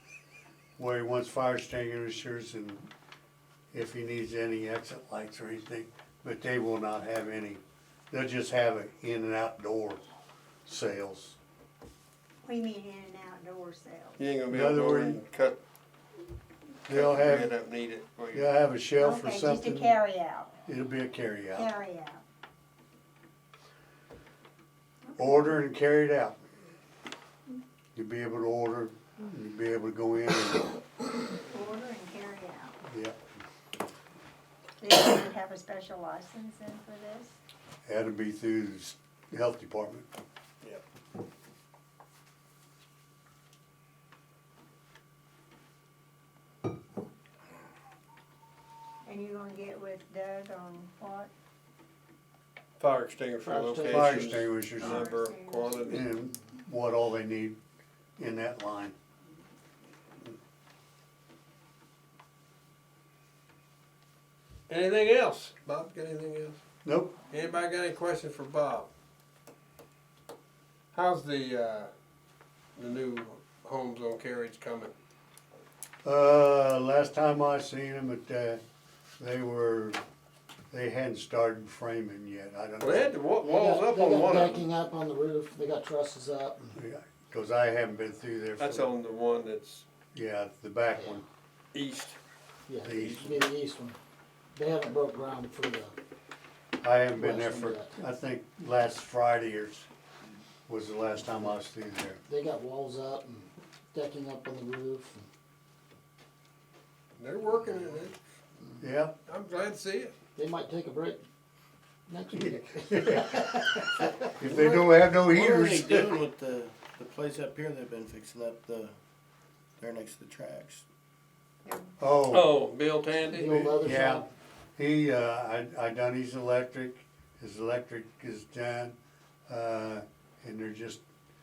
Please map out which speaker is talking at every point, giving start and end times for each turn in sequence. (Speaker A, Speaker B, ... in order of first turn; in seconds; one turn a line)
Speaker A: 0.8-2.9
Speaker A: 3.7-10.0
Speaker A: 10.7-11.4
Speaker B: 12.4-14.2
Speaker C: 14.2-15.6
Speaker A: 14.5-15.2
Speaker A: 16.9-17.5
Speaker C: 16.9-18.5
Speaker A: 18.3-20.0
Speaker B: 19.0-20.5
Speaker A: 20.7-21.7
Speaker B: 21.5-22.2
Speaker A: 25.2-26.4
Speaker B: 25.2-25.5
Speaker A: 27.9-30.7
Speaker B: 31.3-32.8
Speaker A: 32.9-33.1
Speaker B: 34.8-37.3
Speaker A: 37.8-40.1
Speaker B: 49.0-51.3
Speaker C: 52.8-56.1
Speaker D: 53.4-54.2
Speaker A: 53.9-55.1
Speaker B: 54.3-56.0
Speaker A: 55.8-57.6
Speaker A: 58.2-58.9
Speaker C: 64.7-66.6
Speaker A: 66.8-67.2
Speaker C: 67.3-68.9
Speaker C: 70.9-71.9
Speaker C: 72.8-74.9
Speaker A: 76.0-78.6
Speaker A: 79.2-80.0
Speaker A: 80.7-83.1
Speaker C: 82.8-84.7
Speaker D: 83.4-86.8
Speaker A: 86.7-88.9
Speaker C: 88.6-89.8
Speaker A: 90.1-91.2
Speaker C: 91.7-92.2
Speaker D: 92.7-94.0
Speaker A: 92.8-93.4
Speaker D: 94.5-96.0
Speaker A: 96.8-99.9
Speaker D: 97.1-98.0
Speaker A: 100.7-102.2
Speaker D: 102.2-105.3
Speaker C: 107.2-108.2
Speaker A: 108.8-109.1
Speaker C: 109.3-110.1
Speaker D: 110.3-111.2
Speaker D: 112.1-114.2
Speaker A: 112.3-116.2
Speaker E: 114.5-119.0
Speaker E: 119.8-120.8
Speaker A: 122.0-122.5
Speaker C: 122.3-123.7
Speaker D: 123.2-124.3
Speaker A: 123.7-128.9
Speaker A: 129.5-131.0